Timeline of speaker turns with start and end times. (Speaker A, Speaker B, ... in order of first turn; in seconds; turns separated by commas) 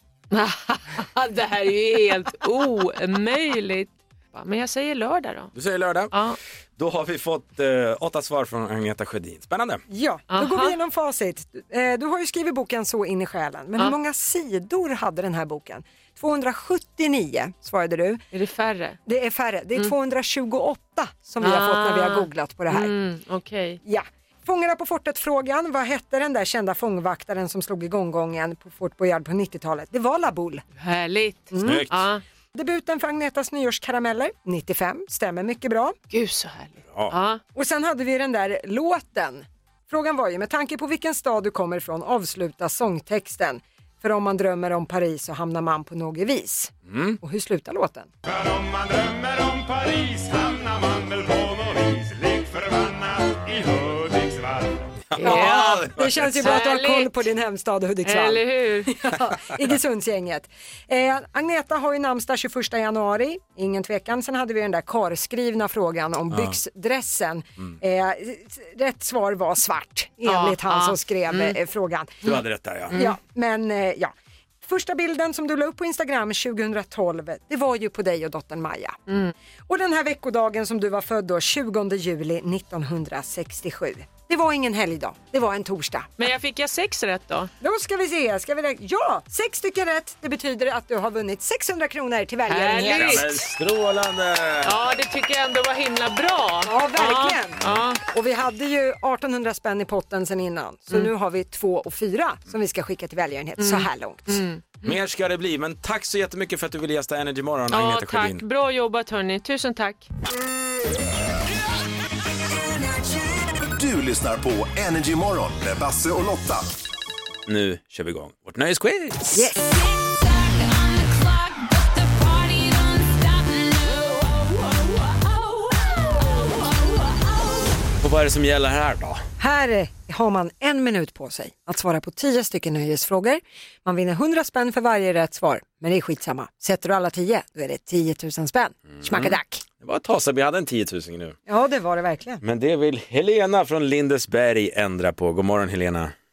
Speaker A: 0.3-5.5, Speaker B: 5.5-6.1, Speaker A: 6.1-6.4, Speaker B: 6.8-9.8, Speaker C: 9.9-18.2, Speaker A: 10.3-10.8, Speaker A: 18.3-19.0, Speaker C: 19.0-22.9, Speaker A: 21.4-23.8, Speaker C: 23.8-30.6, Speaker A: 30.8-32.2, Speaker C: 31.5-31.9, Speaker B: 31.6-32.0, Speaker C: 32.5-36.0, Speaker A: 36.1-37.4, Speaker B: 36.9-37.1, Speaker C: 37.5-48.1, Speaker B: 46.9-47.2, Speaker D: 48.2-55.0, Speaker B: 55.1-56.5, Speaker A: 55.2-55.8, Speaker C: 55.2-72.2, Speaker A: 56.4-57.2, Speaker A: 58.0-59.0, Speaker B: 66.3-66.5, Speaker A: 70.2-71.6, Speaker B: 72.2-72.9, Speaker A: 72.9-73.2, Speaker C: 72.9-79.0, Speaker A: 79.1-79.3, Speaker C: 79.7-86.1, Speaker A: 86.2-87.5, Speaker C: 87.6-93.4, Speaker A: 92.5-93.4, Speaker B: 92.7-94.8, Speaker A: 94.6-98.0, Speaker C: 96.6-104.4, Speaker A: 103.6-105.0, Speaker B: 104.8-108.4, Speaker A: 107.7-110.0, Speaker E: 113.6-116.7, Speaker B: 117.5-119.5, Speaker C: 119.3-119.6, Speaker B: 128.0-129.2, Speaker C: 129.4-139.6, Speaker B: 139.0-141.4, Speaker C: 141.5-142.4, Speaker B: 142.4-146.1